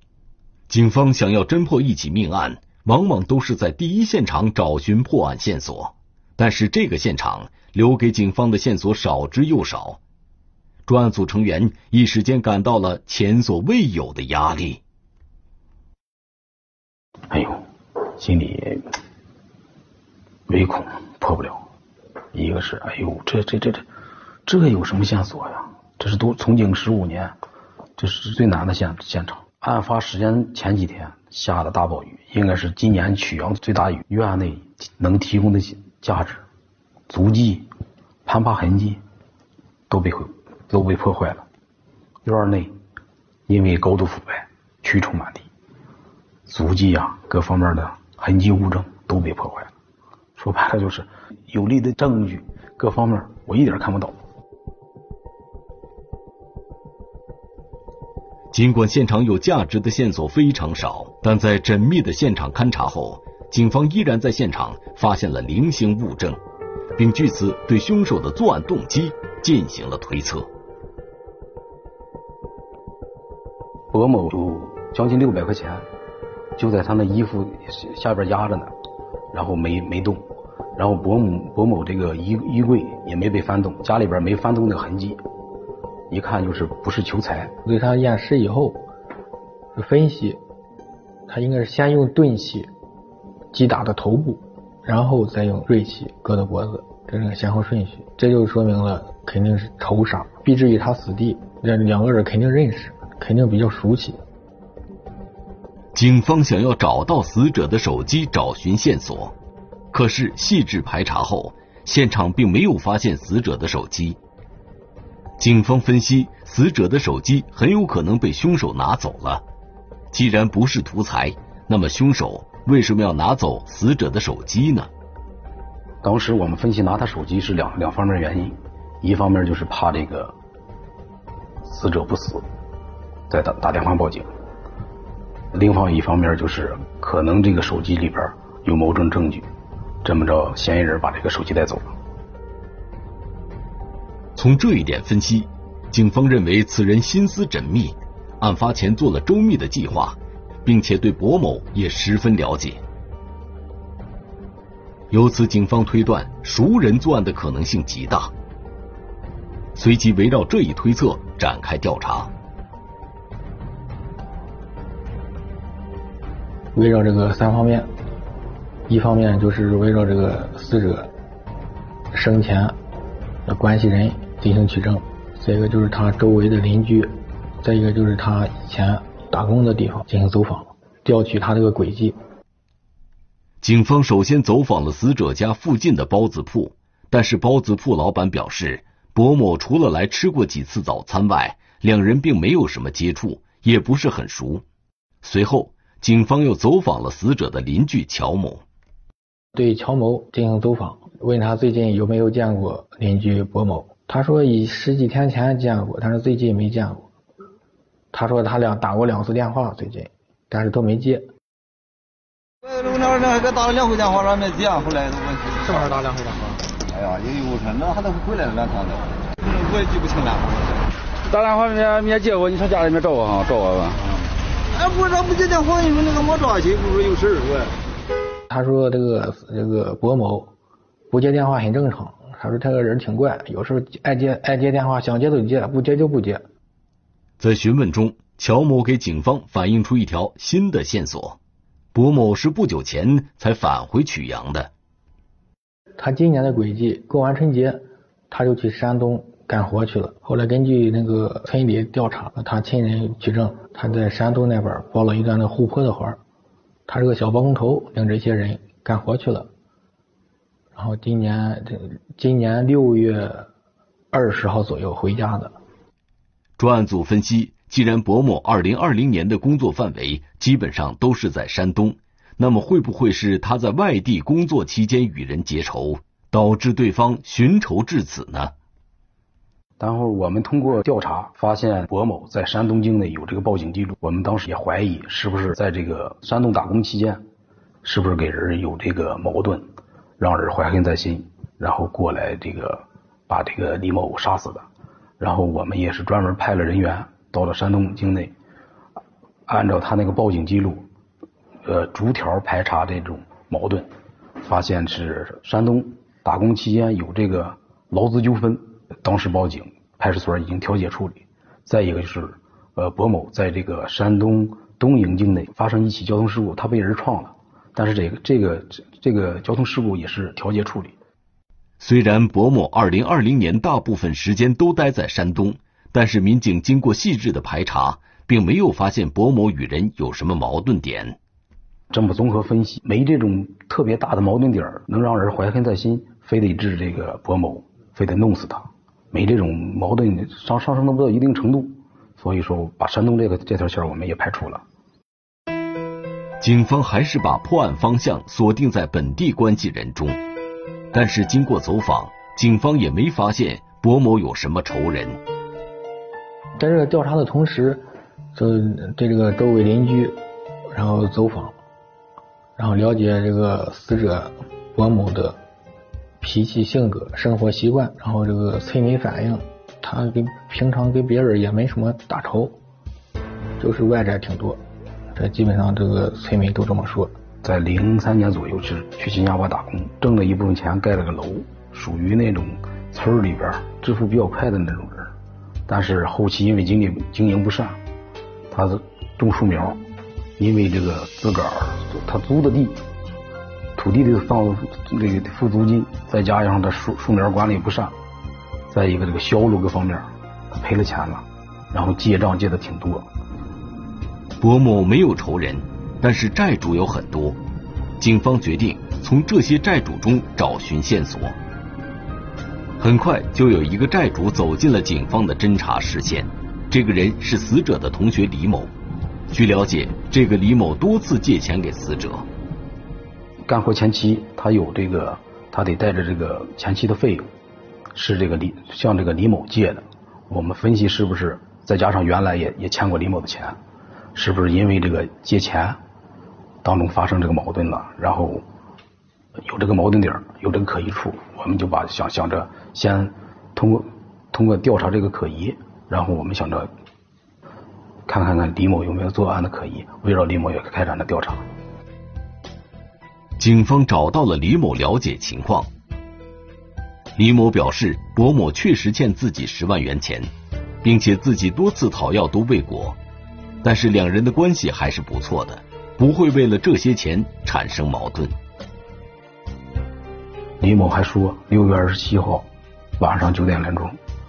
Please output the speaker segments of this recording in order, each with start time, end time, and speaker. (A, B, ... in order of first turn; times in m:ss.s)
0:00.7-0:10.0 A
0:10.9-0:14.8 A
0:17.3-0:18.9 B
0:20.5-0:21.6 B
0:22.3-0:23.8 B
0:24.4-0:27.3 B
0:28.0-0:36.4 B
0:37.1-0:37.7 B
0:38.2-0:39.0 B
0:39.9-0:41.4 B
0:42.2-0:42.8 B
0:43.5-0:45.5 B
0:46.4-0:49.7 B
0:50.4-0:54.2 B
0:58.5-1:06.4 A
1:07.0-1:10.5 A
1:13.9-1:15.8 B
1:16.6-1:18.7 B
1:19.3-1:20.2 B
1:20.8-1:25.2 B
1:26.1-1:27.6 B
1:27.6-1:28.8 C
1:29.8-1:30.4 C
1:31.3-1:32.7 C
1:33.5-1:44.2 C
1:45.9-1:49.3 A
1:49.9-1:54.2 A
1:55.4-1:59.4 A
2:00.1-2:04.9 A
2:06.0-2:10.4 B
2:11.6-2:12.4 B
2:13.3-2:14.3 B
2:15.5-2:19.5 B
2:20.0-2:22.0 B
2:24.4-2:32.8 A
2:35.1-2:38.3 A
2:39.8-2:42.3 A
2:46.7-2:47.9 C
2:48.9-2:51.1 C
2:52.1-2:52.8 C
2:53.4-3:02.2 C
3:03.6-3:14.6 A
3:15.2-3:18.6 A
3:19.5-3:27.0 C
3:28.1-3:31.3 C
3:32.6-3:40.8 D
3:41.2-3:44.1 E
3:44.7-3:47.8 D
3:48.5-3:50.5 C
3:51.1-3:56.4 C
3:57.4-4:01.4 A
4:01.9-4:04.7 A
4:06.0-4:16.2 C
4:16.9-4:19.5 C
4:20.8-4:23.5 C
4:24.1-4:25.5 C
4:26.6-4:38.5 A
4:39.8-4:47.2 B
4:47.8-4:54.6 B
4:55.2-4:58.3 B
4:59.5-5:00.9 B
5:01.6-5:03.9 B
5:04.4-5:21.0 B
5:21.8-5:31.2 A
5:31.9-5:44.6 B
5:46.4-5:50.2 A
5:50.9-5:55.2 A
5:56.6-6:00.2 C
6:00.7-6:01.5 C
6:02.6-6:05.4 C
6:06.2-6:12.6 C
6:13.6-6:14.6 C
6:15.1-6:17.1 C
6:17.4-6:25.1 B
6:25.7-6:27.8 B
6:28.5-6:29.8 B
6:30.4-6:32.8 B
6:33.8-6:38.0 B
6:38.7-6:43.1 B
6:44.4-6:47.4 A
6:48.0-6:51.4 A
6:52.8-6:58.7 A
6:59.3-7:02.2 A
7:03.5-7:07.3 B
7:07.9-7:13.6 B
7:14.1-7:15.8 B
7:16.6-7:18.4 B
7:19.4-7:26.7 B
7:28.0-7:31.5 B
7:33.4-7:35.7 A
7:37.2-7:40.3 A
7:40.8-7:43.0 A
7:43.6-7:48.4 A
7:50.6-7:54.0 B